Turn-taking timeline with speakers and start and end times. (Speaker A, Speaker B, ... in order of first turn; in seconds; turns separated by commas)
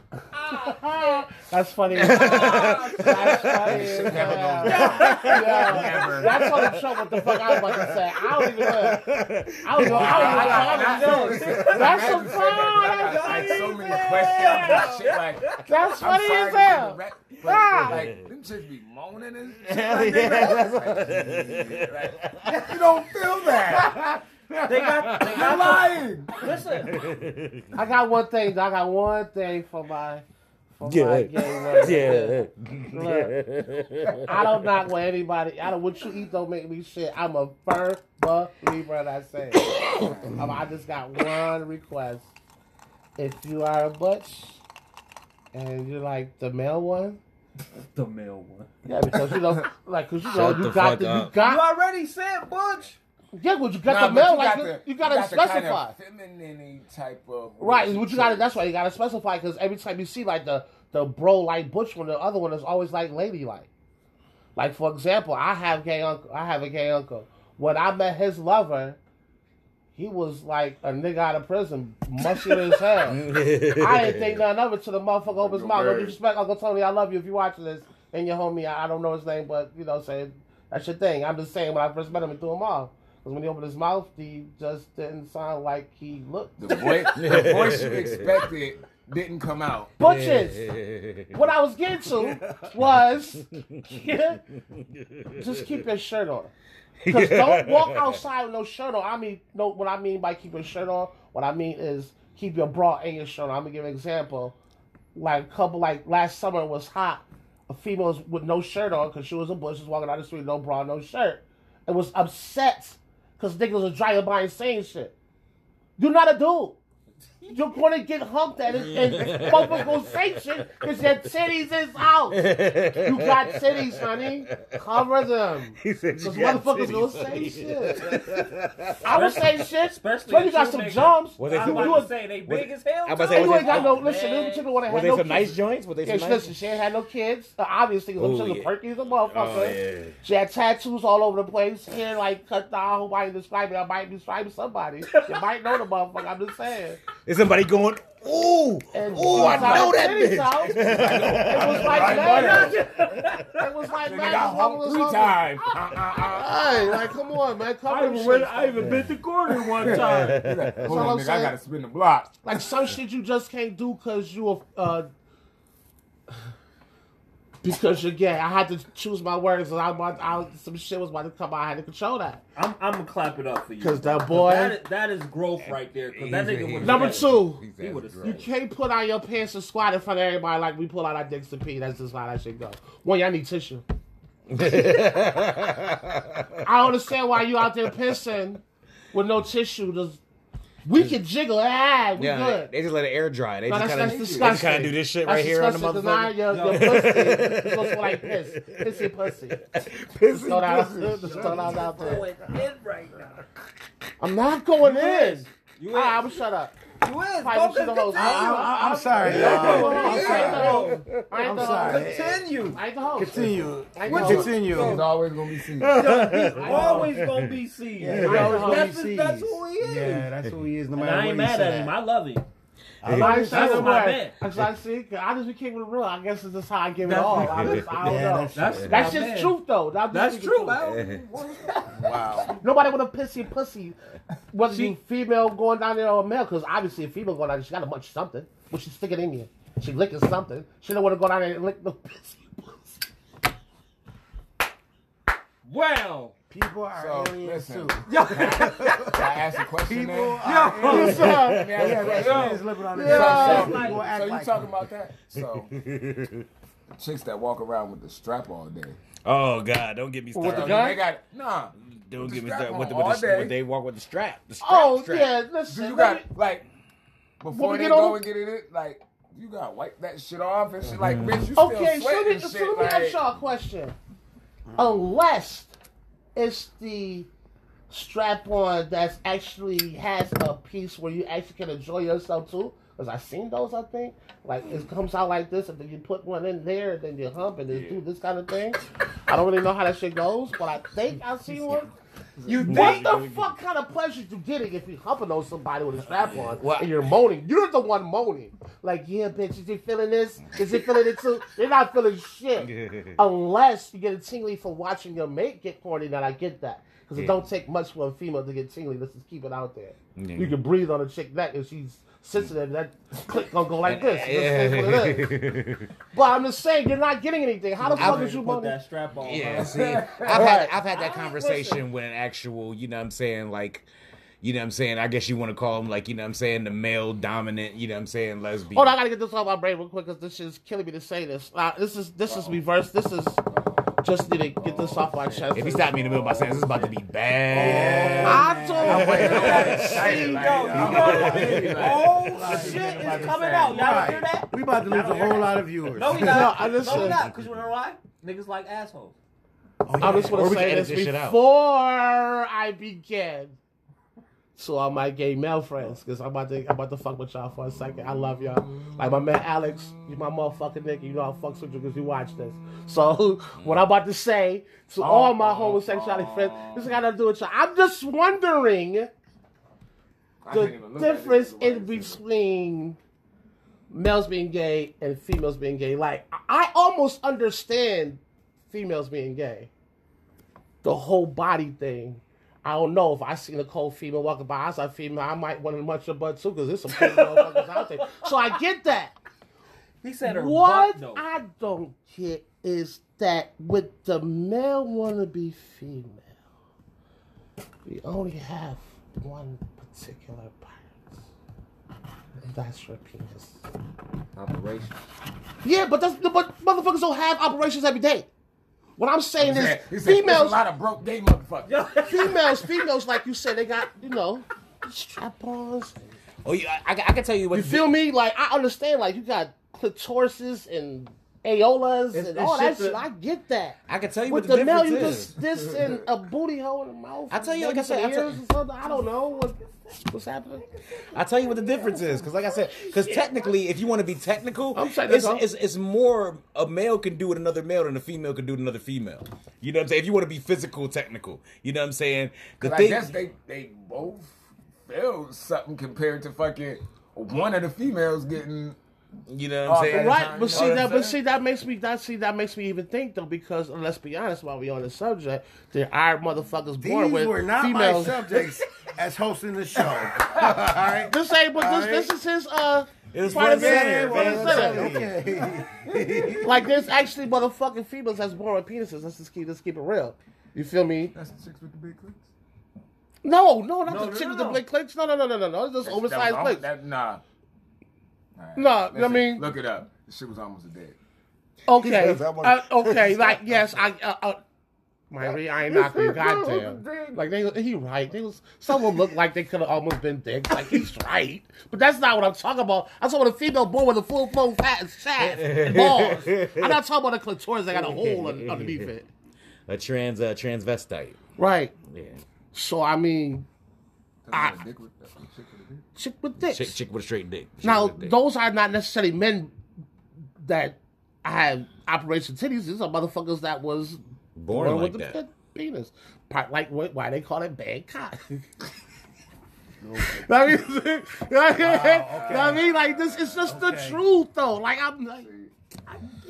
Speaker A: 0.3-9.1, Speaker B: 1.9-11.0, Speaker C: 2.0-6.5, Speaker D: 2.4-2.7, Speaker D: 4.6-6.2, Speaker A: 9.6-14.0, Speaker C: 9.9-24.1, Speaker D: 9.9-16.0, Speaker B: 14.5-14.8, Speaker A: 15.7-18.1, Speaker B: 17.5-18.2, Speaker B: 19.6-22.8, Speaker D: 19.9-20.8, Speaker B: 23.7-25.6, Speaker D: 24.7-27.0, Speaker C: 25.2-26.5, Speaker B: 26.8-27.7, Speaker A: 27.7-30.2, Speaker A: 30.8-33.4, Speaker B: 30.8-34.4, Speaker A: 34.2-42.3, Speaker A: 43.2-44.6, Speaker A: 45.5-47.2, Speaker D: 47.7-48.7, Speaker A: 48.9-51.6, Speaker B: 50.2-51.3, Speaker D: 51.4-53.0, Speaker A: 53.3-55.9, Speaker C: 53.9-58.5, Speaker A: 57.6-63.7, Speaker A: 64.6-69.0, Speaker A: 70.0-87.1, Speaker B: 73.0-74.4, Speaker C: 75.3-76.2, Speaker C: 86.6-89.9, Speaker B: 87.1-88.5, Speaker A: 90.0-90.7, Speaker B: 90.0-91.3, Speaker A: 91.3-94.4, Speaker B: 92.2-92.8, Speaker B: 93.5-93.9, Speaker B: 94.8-95.5, Speaker A: 95.4-96.5, Speaker B: 97.0-98.2, Speaker A: 97.1-104.5, Speaker A: 105.1-115.1, Speaker A: 116.0-116.8, Speaker A: 117.5-128.2, Speaker B: 118.7-120.3, Speaker B: 122.3-123.9, Speaker B: 124.5-124.8, Speaker B: 125.8-129.3, Speaker A: 129.0-132.1, Speaker D: 129.1-134.8, Speaker B: 131.4-134.0, Speaker A: 133.3-147.0, Speaker B: 134.9-136.5, Speaker B: 138.2-138.7, Speaker B: 139.2-140.2, Speaker D: 145.1-145.4, Speaker B: 147.2-152.4, Speaker A: 148.9-152.8, Speaker C: 149.3-149.9, Speaker D: 149.4-149.8, Speaker C: 150.6-152.8, Speaker D: 151.9-153.7, Speaker A: 153.5-155.6, Speaker C: 154.0-157.1, Speaker A: 156.2-158.9, Speaker D: 157.9-160.4, Speaker B: 158.8-159.1, Speaker C: 159.8-162.4, Speaker B: 159.8-161.0, Speaker A: 160.8-161.6, Speaker A: 162.4-165.1, Speaker A: 167.6-172.4, Speaker D: 172.6-178.5, Speaker A: 173.8-174.8, Speaker B: 175.7-178.4, Speaker A: 176.8-177.6, Speaker A: 178.2-183.8, Speaker B: 184.5-186.6, Speaker A: 186.6-188.6, Speaker A: 189.1-190.2, Speaker A: 190.8-192.7, Speaker B: 192.1-201.8, Speaker A: 193.7-199.6, Speaker C: 194.0-194.6, Speaker D: 196.5-197.2, Speaker A: 200.3-202.3, Speaker C: 200.6-201.7, Speaker D: 201.5-203.4, Speaker A: 204.2-206.8, Speaker D: 204.8-206.4, Speaker D: 206.9-212.8, Speaker A: 207.4-214.6, Speaker E: 208.1-210.8, Speaker C: 209.3-210.9, Speaker E: 211.4-212.5, Speaker E: 213.2-215.0, Speaker D: 214.1-215.1, Speaker C: 214.1-215.9, Speaker B: 215.8-217.6, Speaker D: 215.9-220.3, Speaker A: 216.6-217.1, Speaker E: 216.6-217.1, Speaker E: 218.0-222.0, Speaker A: 218.1-218.9, Speaker D: 220.9-222.4, Speaker E: 223.0-224.0, Speaker A: 223.1-230.8, Speaker D: 223.2-224.4, Speaker D: 227.0-229.6, Speaker B: 227.4-229.1, Speaker E: 228.0-228.9, Speaker D: 230.1-232.5, Speaker B: 230.8-231.2, Speaker E: 232.0-232.5, Speaker C: 232.1-232.4, Speaker A: 232.5-234.0, Speaker A: 234.5-242.9, Speaker D: 245.6-246.3, Speaker E: 246.5-248.2, Speaker C: 246.9-255.7, Speaker D: 248.1-249.2, Speaker E: 248.7-249.3, Speaker E: 249.8-254.7, Speaker D: 250.4-251.3, Speaker A: 250.8-251.6, Speaker B: 250.9-252.4, Speaker D: 252.5-254.1, Speaker A: 252.9-253.9, Speaker B: 255.3-256.4, Speaker C: 257.0-259.0, Speaker B: 259.2-261.0, Speaker A: 260.3-261.0, Speaker C: 260.4-263.6, Speaker B: 261.8-265.3, Speaker A: 264.6-266.3, Speaker C: 265.7-266.7, Speaker C: 267.4-273.3, Speaker A: 267.5-268.2, Speaker B: 270.9-271.5, Speaker A: 271.6-273.9, Speaker A: 274.8-275.7, Speaker A: 276.4-277.3, Speaker A: 277.9-291.9, Speaker C: 287.7-288.0, Speaker C: 292.4-293.2, Speaker B: 292.5-293.6, Speaker A: 292.5-315.4, Speaker B: 296.2-297.0, Speaker B: 300.5-300.9, Speaker B: 302.6-303.2, Speaker B: 307.1-307.4, Speaker B: 310.2-310.6, Speaker B: 313.8-315.9, Speaker A: 316.1-318.8, Speaker D: 317.8-319.8, Speaker B: 318.0-318.3, Speaker B: 319.2-323.9, Speaker C: 319.3-320.7, Speaker A: 320.3-321.8, Speaker B: 324.4-328.9, Speaker A: 328.7-333.4, Speaker C: 332.3-332.6, Speaker A: 334.0-335.9, Speaker C: 334.6-336.9, Speaker B: 335.6-341.9, Speaker E: 337.5-339.5, Speaker D: 337.5-349.1, Speaker C: 337.7-338.0, Speaker A: 338.2-341.1, Speaker C: 338.9-344.1, Speaker E: 340.8-347.1, Speaker A: 346.1-347.2, Speaker B: 346.9-347.3, Speaker E: 349.9-350.5, Speaker B: 350.0-351.4, Speaker A: 350.0-353.6, Speaker A: 354.6-369.1, Speaker B: 363.6-363.9, Speaker C: 365.0-366.9, Speaker C: 370.4-372.2, Speaker A: 370.5-373.0, Speaker A: 373.9-379.7, Speaker A: 380.8-389.1, Speaker D: 390.0-391.3, Speaker A: 390.2-396.3, Speaker A: 397.9-400.9, Speaker A: 402.4-403.6, Speaker D: 404.4-405.0, Speaker A: 405.6-408.3, Speaker A: 409.0-410.6, Speaker C: 409.4-411.8, Speaker D: 411.6-412.7, Speaker A: 412.1-416.0, Speaker B: 416.4-417.9, Speaker A: 417.5-430.6, Speaker D: 422.1-423.0, Speaker B: 423.9-425.4, Speaker B: 427.3-428.4, Speaker D: 430.5-433.6, Speaker B: 431.1-443.2, Speaker A: 434.7-435.4, Speaker C: 442.6-448.8, Speaker B: 449.3-450.9, Speaker C: 449.6-451.2, Speaker A: 449.9-458.2, Speaker E: 456.8-462.1, Speaker A: 461.0-465.1, Speaker B: 463.1-465.1, Speaker E: 463.2-466.7, Speaker A: 466.4-471.1, Speaker C: 471.1-472.2, Speaker A: 473.2-476.6, Speaker D: 473.9-474.6, Speaker C: 475.9-477.2, Speaker C: 478.4-480.9, Speaker A: 478.6-479.5, Speaker A: 481.7-484.4, Speaker B: 481.8-483.4, Speaker E: 481.8-482.4, Speaker A: 485.1-499.1, Speaker E: 485.7-487.2, Speaker B: 495.2-496.8, Speaker B: 497.7-498.9, Speaker B: 499.7-501.2, Speaker A: 501.4-501.7, Speaker B: 501.9-502.2, Speaker A: 502.5-503.5, Speaker C: 504.3-505.8, Speaker A: 504.3-504.6, Speaker A: 505.9-506.8, Speaker B: 506.4-508.2, Speaker A: 507.6-509.5, Speaker A: 510.4-518.5, Speaker B: 514.4-515.2, Speaker C: 519.8-520.3, Speaker A: 520.0-525.3, Speaker E: 521.6-522.8, Speaker C: 522.0-523.5, Speaker E: 523.4-524.0, Speaker C: 525.2-525.5